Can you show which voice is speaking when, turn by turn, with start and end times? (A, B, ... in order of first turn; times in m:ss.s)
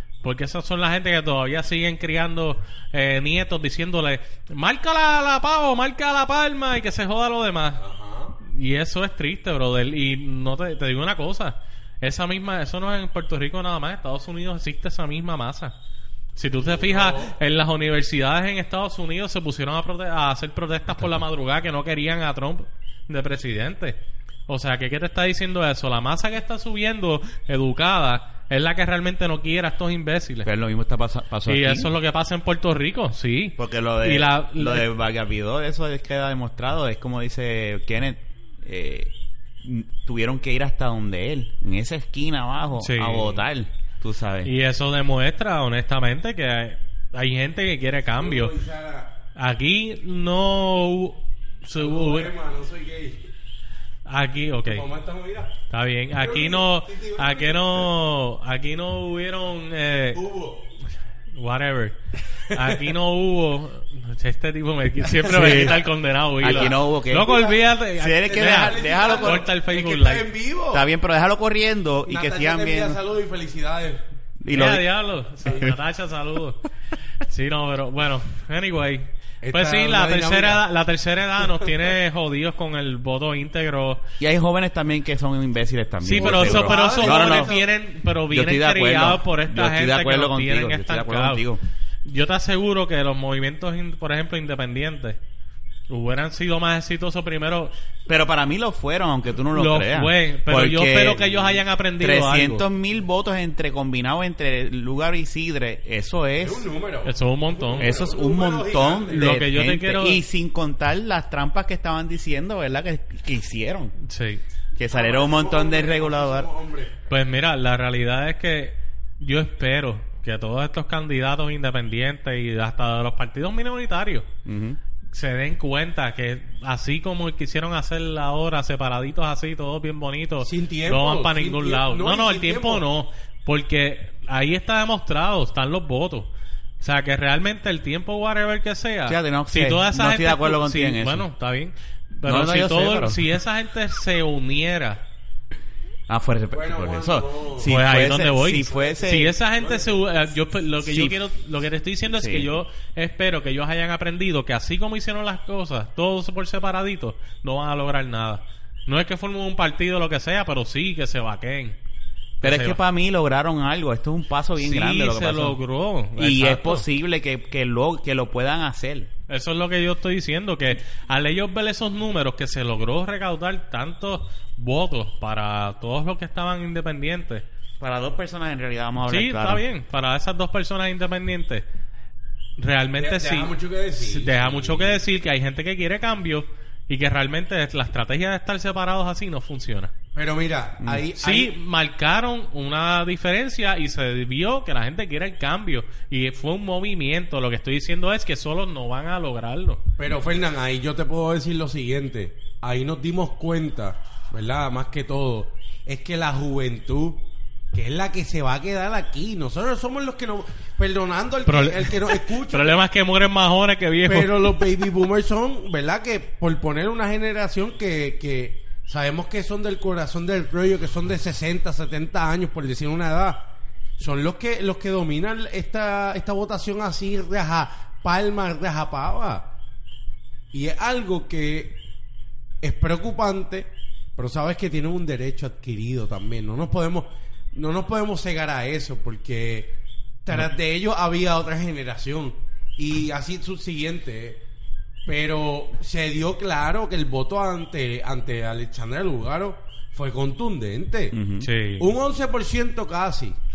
0:00.2-0:07.8 A
0:07.8-0:08.4 B
0:08.4-0:15.8 A
0:16.4-0:30.5 A
0:16.5-0:17.4 B
0:30.4-0:31.9 C
0:31.5-0:34.9 A
0:33.6-0:39.1 C
0:39.6-0:44.5 C
0:42.8-0:43.4 A
0:44.4-0:48.6 A
0:48.1-0:49.2 B
0:49.4-0:52.3 A
0:51.8-0:53.3 B
0:54.1-0:54.9 A
0:54.6-0:55.6 B
0:55.7-1:00.2 A
0:56.1-0:57.9 B
1:00.1-1:00.7 B
1:01.3-1:02.0 A
1:02.5-1:02.8 B
1:02.5-1:10.3 A
1:05.0-1:05.8 B
1:05.3-1:05.8 C
1:06.4-1:07.4 C
1:06.4-1:07.6 B
1:08.0-1:09.5 C
1:08.2-1:10.9 B
1:10.7-1:13.0 C
1:12.1-1:14.0 B
1:14.4-1:14.9 C
1:14.5-1:16.6 A
1:15.4-1:15.7 B
1:15.5-1:15.7 C
1:17.2-1:24.0 A
1:19.4-1:20.6 B
1:24.2-1:27.6 C
1:26.0-1:31.4 A
1:26.1-1:27.7 B
1:28.3-1:31.6 C
1:32.1-1:35.2 A
1:35.9-1:37.7 A
1:38.1-1:46.7 C
1:39.5-1:42.6 A
1:46.4-1:49.4 B
1:47.0-1:47.9 A
1:47.8-1:54.0 C
1:49.1-1:50.2 A
1:54.0-1:54.4 A
1:54.8-1:56.5 C
1:54.9-1:57.0 B
1:57.1-2:04.3 A
2:04.4-2:04.8 C
2:05.1-2:25.0 A
2:10.4-2:12.9 B
2:19.1-2:21.3 C
2:22.3-2:23.3 C
2:26.1-2:29.4 C
2:26.5-2:27.8 B
2:27.7-2:41.8 A
2:28.6-2:30.0 B
2:30.8-2:31.2 C
2:32.2-2:32.5 C
2:42.4-2:42.8 A
2:42.4-2:45.6 C
2:44.6-2:46.8 A
2:46.2-2:49.1 C
2:49.3-2:57.4 A
2:57.8-2:59.6 C
2:59.1-3:01.6 A
3:02.6-3:09.9 A
3:03.0-3:04.9 B
3:10.1-3:11.6 B
3:10.8-3:11.1 C
3:11.2-3:19.8 A
3:20.0-3:32.8 B
3:31.5-3:34.6 A
3:34.0-3:49.5 B
3:50.5-3:51.8 B
3:52.6-4:04.4 B
4:05.1-4:11.2 B
4:11.1-4:11.5 C
4:11.4-4:11.9 A
4:11.8-4:13.4 B